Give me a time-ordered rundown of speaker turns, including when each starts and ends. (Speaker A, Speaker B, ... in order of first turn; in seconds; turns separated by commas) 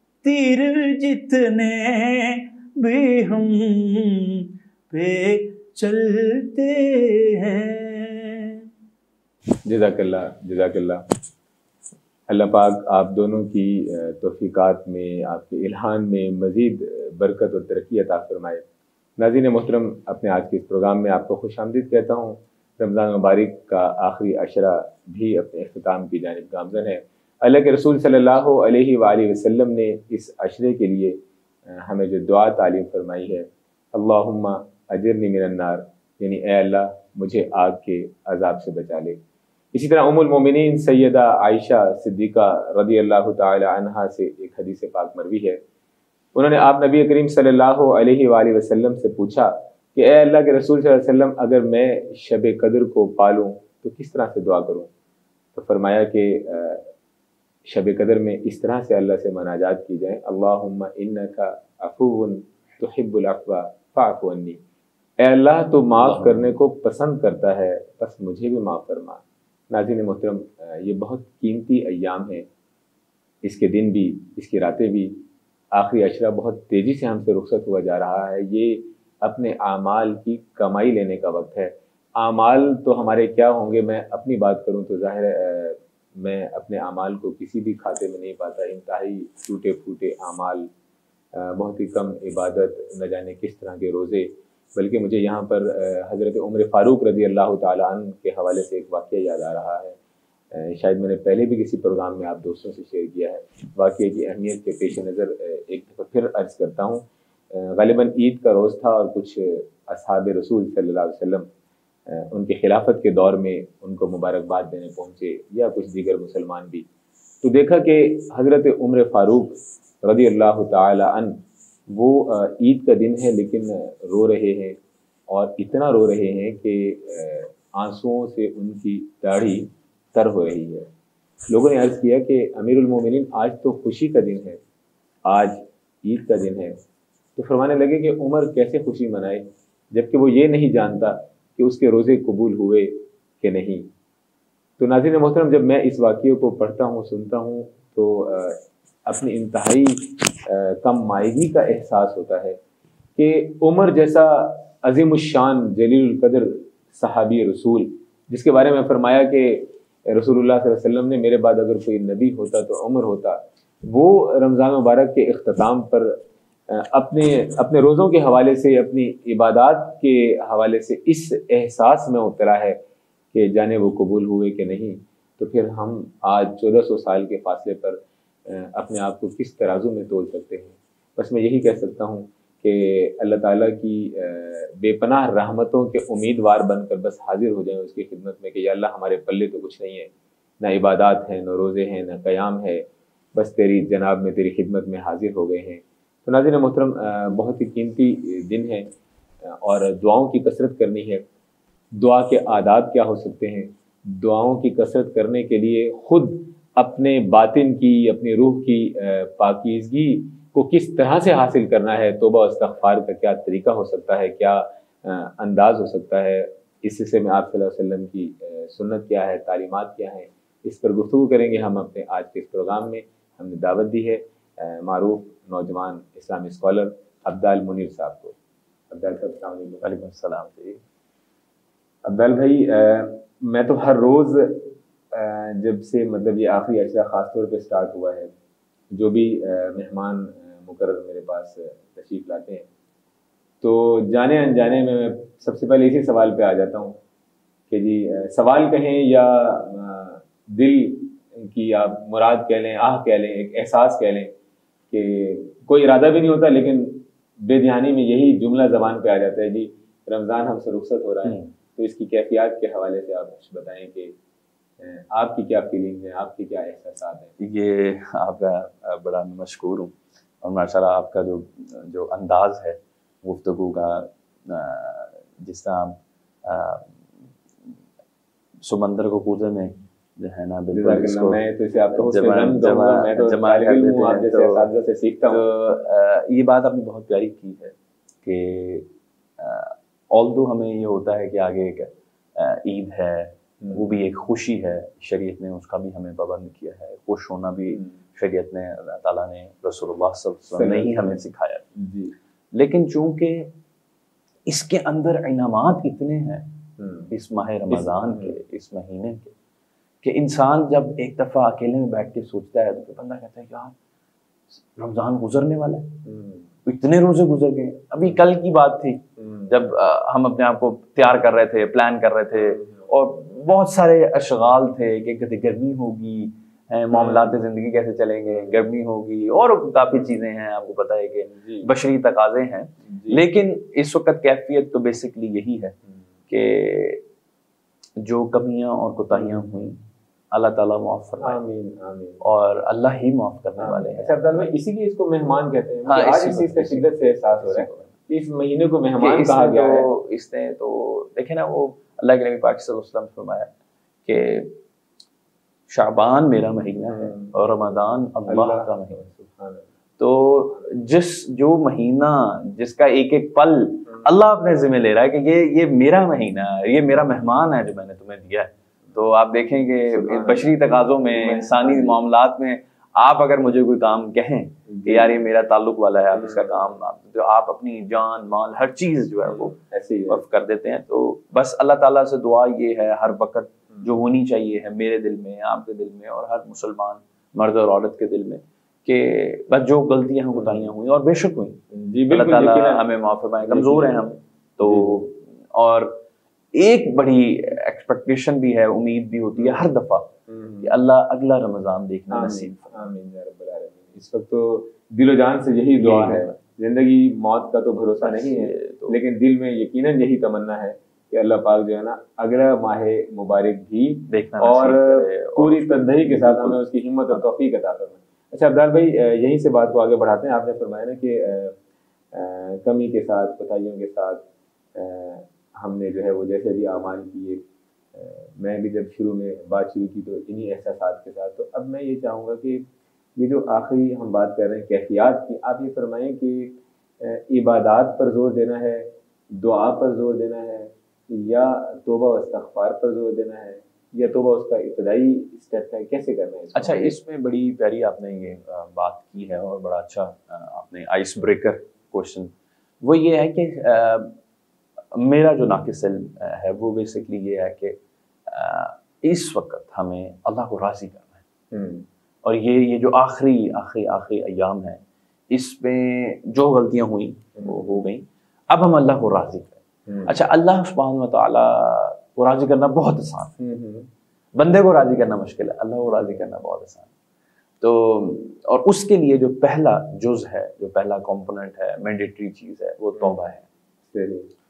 Speaker A: 0.2-8.6, Speaker B: 9.7-11.0, Speaker B: 12.3-18.6, Speaker B: 19.2-31.2, Speaker B: 31.7-39.2, Speaker B: 39.7-45.6, Speaker B: 46.3-54.9, Speaker B: 55.5-56.9, Speaker B: 57.7-64.6, Speaker B: 65.2-72.5, Speaker C: 66.0-66.5, Speaker B: 73.4-75.2, Speaker B: 75.7-90.7, Speaker B: 91.3-100.0, Speaker B: 100.5-111.5, Speaker B: 112.1-116.9, Speaker B: 117.4-130.9, Speaker B: 131.5-134.6, Speaker B: 135.2-136.8, Speaker B: 137.4-143.9, Speaker B: 144.8-152.6, Speaker B: 153.2-166.2, Speaker B: 166.7-172.8, Speaker B: 173.3-198.9, Speaker B: 199.4-201.3, Speaker B: 202.0-228.3, Speaker B: 228.9-229.8, Speaker C: 229.8-230.8, Speaker B: 232.1-238.3, Speaker B: 238.9-242.7, Speaker B: 243.6-247.0, Speaker B: 247.7-254.3, Speaker B: 254.9-264.1, Speaker C: 261.2-261.5, Speaker B: 264.8-267.3, Speaker C: 267.4-276.9, Speaker C: 278.6-284.6, Speaker B: 280.7-285.4, Speaker C: 285.3-301.7, Speaker B: 300.5-301.2, Speaker B: 301.8-302.1, Speaker C: 302.5-303.5, Speaker C: 304.5-306.5, Speaker B: 306.8-307.1, Speaker C: 307.1-309.3, Speaker B: 307.7-308.4, Speaker C: 310.0-313.7, Speaker C: 314.8-315.9, Speaker B: 316.1-316.5, Speaker C: 316.6-335.8, Speaker B: 319.2-319.5, Speaker B: 322.4-322.7, Speaker B: 326.9-327.3, Speaker B: 331.3-331.7, Speaker B: 332.9-333.2, Speaker C: 336.3-337.0, Speaker C: 338.0-339.8, Speaker C: 340.3-341.4, Speaker B: 341.2-342.2, Speaker C: 342.2-344.5, Speaker B: 343.6-349.9, Speaker C: 345.9-347.9, Speaker C: 349.0-353.5, Speaker C: 354.1-354.6, Speaker C: 355.7-359.0, Speaker B: 356.9-357.3, Speaker B: 358.3-359.7, Speaker C: 360.0-379.6, Speaker B: 369.9-371.9, Speaker B: 374.7-375.2, Speaker B: 376.1-376.6, Speaker B: 379.3-380.2, Speaker C: 380.1-396.0, Speaker B: 390.3-390.7, Speaker B: 391.7-392.9, Speaker B: 393.4-394.0, Speaker B: 394.6-395.0, Speaker C: 396.6-402.8, Speaker B: 399.4-399.6, Speaker B: 400.3-400.7, Speaker B: 402.1-421.6, Speaker C: 405.8-406.4, Speaker C: 408.0-409.0, Speaker C: 414.1-417.2, Speaker B: 422.1-424.2, Speaker B: 424.8-427.4, Speaker B: 427.9-446.9, Speaker C: 446.6-454.2, Speaker C: 454.9-457.8, Speaker C: 458.3-461.2, Speaker B: 461.5-461.9, Speaker C: 462.2-473.3, Speaker B: 467.4-467.8, Speaker B: 469.9-470.1, Speaker B: 473.4-473.9, Speaker C: 474.4-476.9, Speaker B: 475.9-476.2, Speaker C: 477.6-483.4, Speaker B: 483.9-484.3